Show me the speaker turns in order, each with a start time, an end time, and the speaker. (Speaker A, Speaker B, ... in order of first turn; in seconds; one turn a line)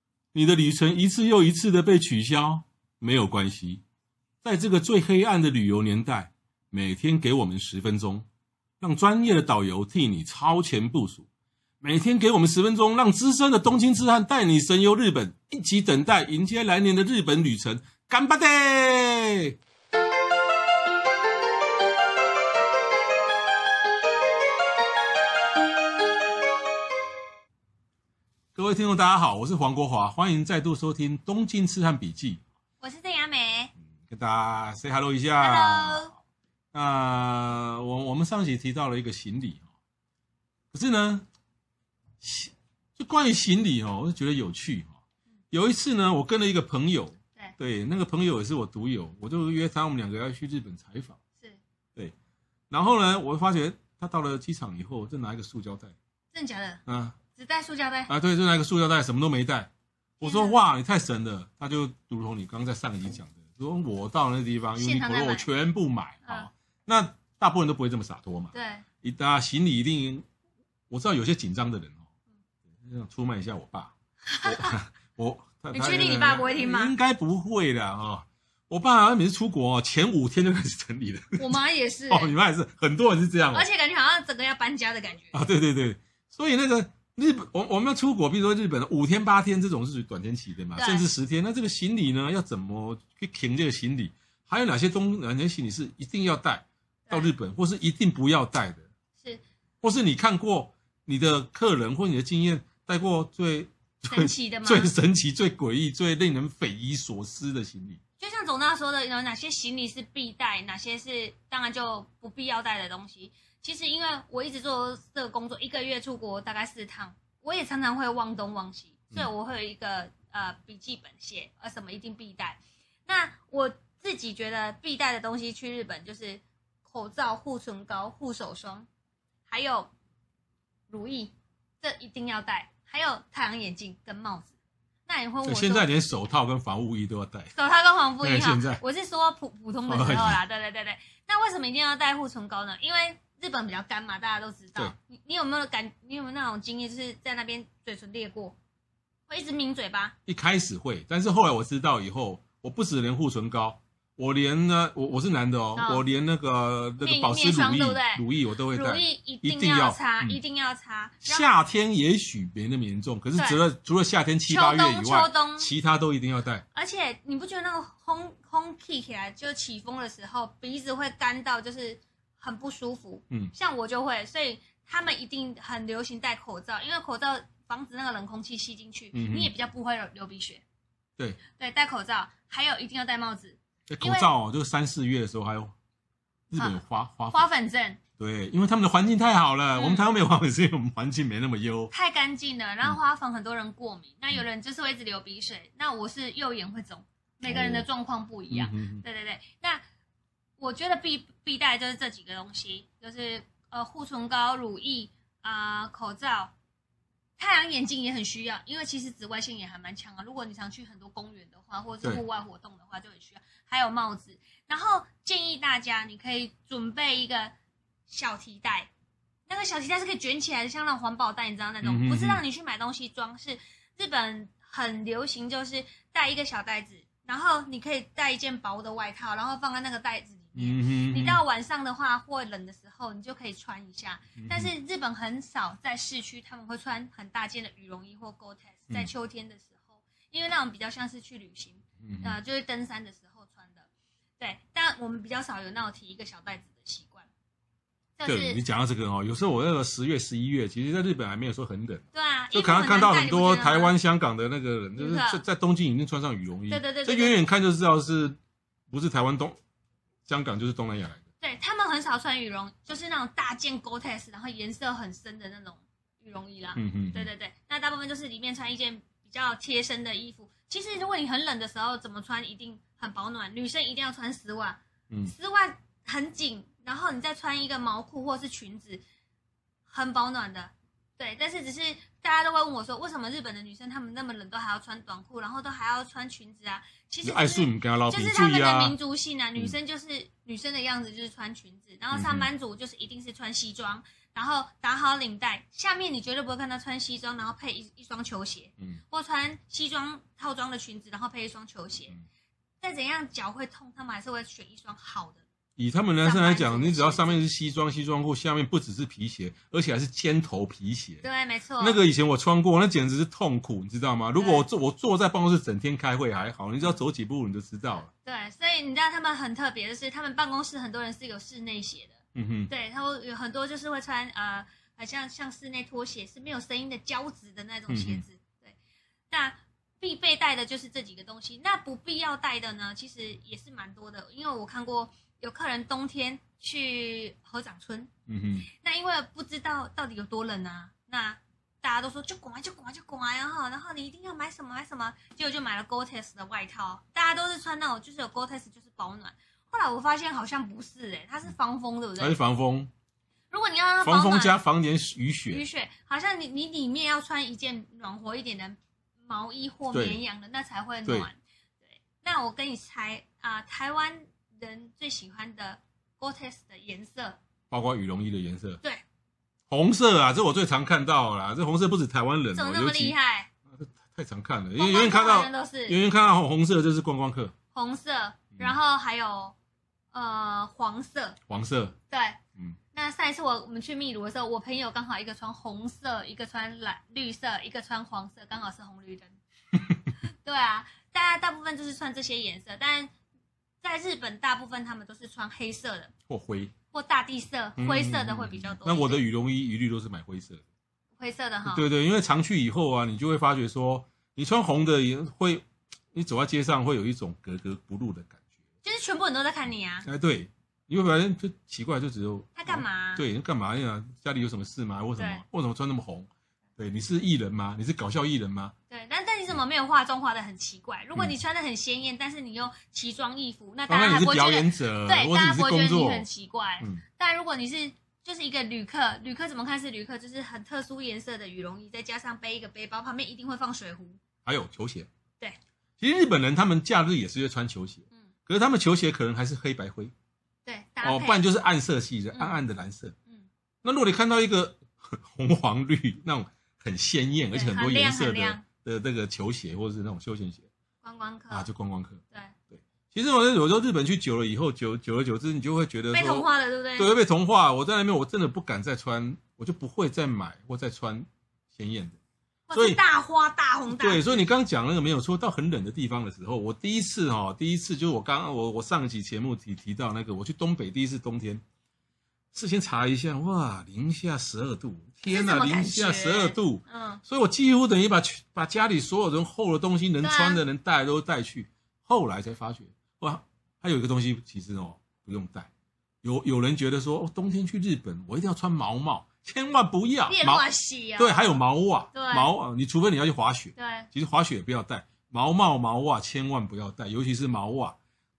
Speaker A: 0.3-3.8
Speaker A: 4.4-8.3
Speaker A: 8.8-11.3
Speaker A: 11.8-19.6
Speaker A: 28.6-32.4
Speaker B: 32.8-33.7
Speaker A: 34.0-36.1
Speaker B: 35.4-36.1
Speaker A: 36.7-39.6
Speaker A: 40.7-41.3
Speaker A: 42.2-44.9
Speaker A: 45.5-51.2
Speaker A: 52.7-56.0
Speaker B: 56.3-56.8
Speaker A: 56.9-57.2
Speaker B: 57.4-58.1
Speaker A: 58.1-59.7
Speaker B: 60.2-60.6
Speaker A: 60.2-70.2
Speaker B: 64.8-65.5
Speaker B: 68.5-68.8
Speaker A: 70.9-72.0
Speaker A: 72.8-81.5
Speaker B: 74.3-74.7
Speaker B: 75.7-76.9
Speaker B: 81.4-82.3
Speaker A: 82.1-83.7
Speaker B: 83.5-85.4
Speaker A: 85.3-98.9
Speaker B: 90.8-91.1
Speaker B: 97.1-97.3
Speaker A: 99.8-108.0
Speaker B: 104.1-104.9
Speaker B: 108.2-128.9
Speaker B: 129.5-129.9
Speaker B: 130.9-134.5
Speaker B: 135.1-135.9
Speaker A: 135.4-137.5
Speaker B: 137.6-148.6
Speaker A: 138.2-138.8
Speaker A: 139.9-140.4
Speaker B: 149.3-150.2
Speaker A: 150.2-160.4
Speaker B: 155.8-156.0
Speaker B: 157.0-161.5
Speaker A: 161.2-166.6
Speaker B: 163.3-163.6
Speaker B: 164.5-165.7
Speaker B: 166.8-180.6
Speaker A: 179.1-179.5
Speaker B: 181.5-184.3
Speaker A: 183.9-185.7
Speaker A: 186.5-187.5
Speaker B: 187.3-188.0
Speaker A: 188.2-191.9
Speaker B: 189.8-190.1
Speaker B: 191.9-199.8
Speaker A: 197.4-197.9
Speaker A: 198.5-199.1
Speaker B: 200.6-206.5
Speaker B: 207.4-217.5
Speaker B: 218.1-218.9
Speaker B: 219.5-243.9
Speaker A: 221.8-222.4
Speaker A: 230.6-231.4
Speaker A: 234.4-234.7
Speaker A: 242.0-242.4
Speaker B: 244.4-247.3
Speaker B: 248.2-248.6
Speaker A: 248.2-258.4
Speaker B: 252.1-253.9
Speaker B: 255.0-255.4
Speaker B: 256.7-257.4
Speaker A: 258.9-259.6
Speaker A: 260.2-261.2
Speaker B: 261.4-279.0
Speaker A: 266.8-267.3
Speaker B: 279.9-302.2
Speaker A: 287.2-288.9
Speaker A: 292.1-292.5
Speaker B: 302.8-305.4
Speaker A: 305.8-311.2
Speaker B: 306.2-307.4
Speaker B: 311.2-312.0
Speaker A: 311.8-318.1
Speaker B: 314.4-314.7
Speaker B: 318.2-322.2
Speaker A: 322.4-322.7
Speaker B: 322.7-328.8
Speaker A: 327.9-328.2
Speaker B: 329.3-338.1
Speaker A: 338.3-338.7
Speaker B: 338.7-352.4
Speaker A: 352.2-352.9
Speaker B: 353.5-354.6
Speaker A: 354.0-355.6
Speaker B: 355.5-367.4
Speaker A: 359.9-360.2
Speaker A: 367.7-368.8
Speaker A: 369.7-373.2
Speaker B: 372.5-373.5
Speaker A: 373.7-377.5
Speaker B: 374.8-376.0
Speaker B: 377.7-379.6
Speaker B: 380.1-381.4
Speaker A: 381.5-381.9
Speaker B: 382.1-382.4
Speaker B: 382.9-389.4
Speaker B: 390.4-393.1
Speaker B: 393.8-396.1
Speaker A: 396.3-396.7
Speaker B: 396.9-399.2
Speaker A: 397.8-400.6
Speaker B: 401.2-401.8
Speaker A: 401.6-408.4
Speaker B: 408.8-410.1
Speaker A: 410.1-418.7
Speaker B: 412.6-413.2
Speaker B: 415.2-415.4
Speaker B: 418.9-434.2
Speaker A: 423.9-426.2
Speaker A: 434.4-435.1
Speaker A: 436.0-440.1
Speaker B: 440.6-441.4
Speaker A: 441.0-443.1
Speaker B: 442.3-442.6
Speaker A: 443.8-450.7
Speaker B: 447.5-448.6
Speaker B: 451.0-451.7
Speaker A: 451.5-462.2
Speaker B: 456.1-457.1
Speaker B: 462.7-464.4
Speaker A: 462.7-463.0
Speaker A: 463.9-471.6
Speaker A: 472.5-485.7
Speaker B: 475.3-477.2
Speaker B: 480.2-480.6
Speaker A: 486.2-497.9
Speaker B: 490.3-491.6
Speaker B: 492.1-492.5
Speaker B: 493.8-494.1